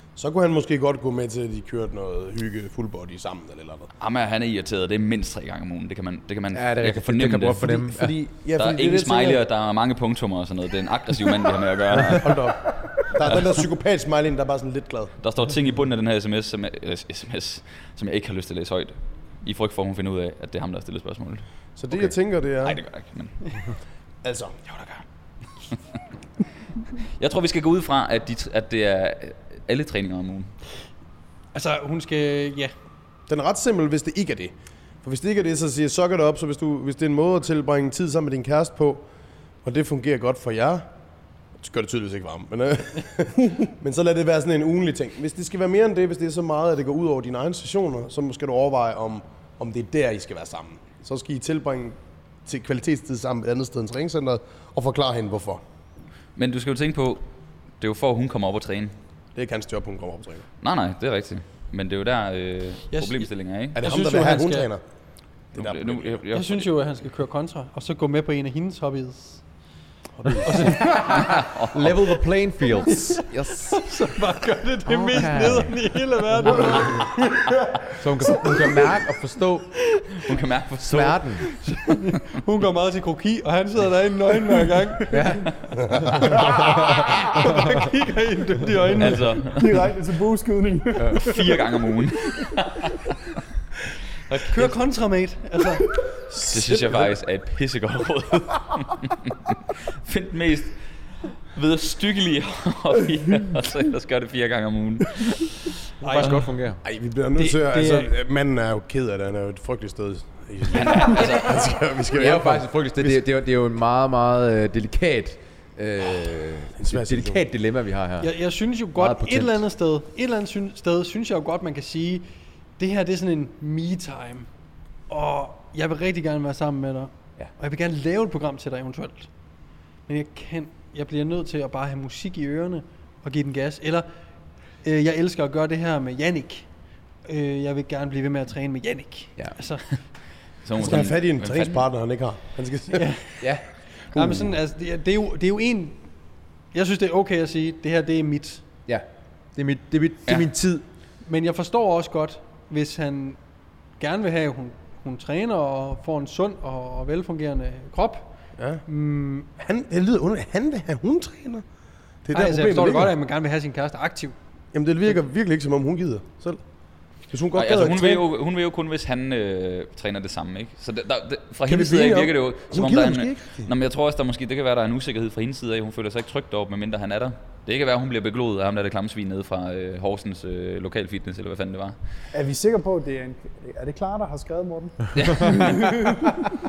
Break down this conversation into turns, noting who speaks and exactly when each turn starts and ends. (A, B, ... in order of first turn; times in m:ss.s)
0:00.2-0:03.9 A
0:04.0-0:07.8 B
0:06.5-0:08.2 C
0:07.6-0:09.4 A
0:08.6-0:13.6 B
0:11.9-0:15.1 A
0:15.2-0:23.7 B
0:21.8-0:22.8 A
0:24.2-0:24.6 A
0:24.7-0:25.0 B
0:27.2-0:30.5 B
0:31.5-0:32.7 D
0:33.3-0:39.0 A
0:39.6-0:40.9 A
0:41.6-0:55.6 A
0:56.4-0:57.2 B
0:57.8-0:59.0 B
0:59.4-1:00.5 A
1:00.6-1:03.8 B
1:02.9-1:04.7 D
1:03.8-1:04.8 A
1:05.5-1:06.2 A
1:05.6-1:06.7 B
1:06.3-1:09.4 D
1:10.2-1:10.8 A
1:10.5-1:13.9 C
1:11.1-1:11.9 B
1:12.9-1:17.0 D
1:14.9-1:16.9 C
1:16.5-1:17.0 A
1:18.0-1:19.7 C
1:20.2-1:21.2 B
1:20.8-1:21.5 C
1:21.6-1:25.3 D
1:25.1-1:26.9 C
1:26.3-1:29.3 D
1:29.0-1:29.7 B
1:29.4-1:31.6 E
1:31.2-1:33.1 B
1:34.3-1:34.8 B
1:34.5-1:35.9 D
1:36.3-1:36.6 A
1:36.4-1:40.8 B
1:41.5-1:45.5 B
1:46.0-1:46.5 D
1:46.0-1:46.8 C
1:46.8-1:53.2 A
1:47.4-1:48.1 D
1:50.7-1:51.8 B
1:52.2-1:58.3 C
1:56.8-1:57.4 A
1:58.2-2:02.3 D
1:59.0-1:59.6 C
2:02.8-2:04.5 D
2:05.1-2:09.3 D
2:10.1-2:14.1 D
2:14.8-2:16.7 D
2:17.3-2:19.9 D
2:20.6-2:21.9 B
2:20.8-2:23.2 A
2:22.9-2:23.4 D
2:24.1-2:26.1 D
2:24.2-2:24.5 C
2:26.7-2:28.6 D
2:28.9-2:30.8 C
2:31.2-2:33.4 D
2:34.0-2:38.3 D
2:38.6-2:38.8 A
2:38.8-2:39.5 D
2:39.6-2:41.6 A
2:42.2-2:43.1 A
2:42.3-2:44.4 D
2:44.7-2:46.6 A
2:47.2-2:48.2 A
2:47.5-3:02.0 B
2:51.7-2:53.7 A
3:02.3-3:06.4 E
3:05.2-3:05.9 B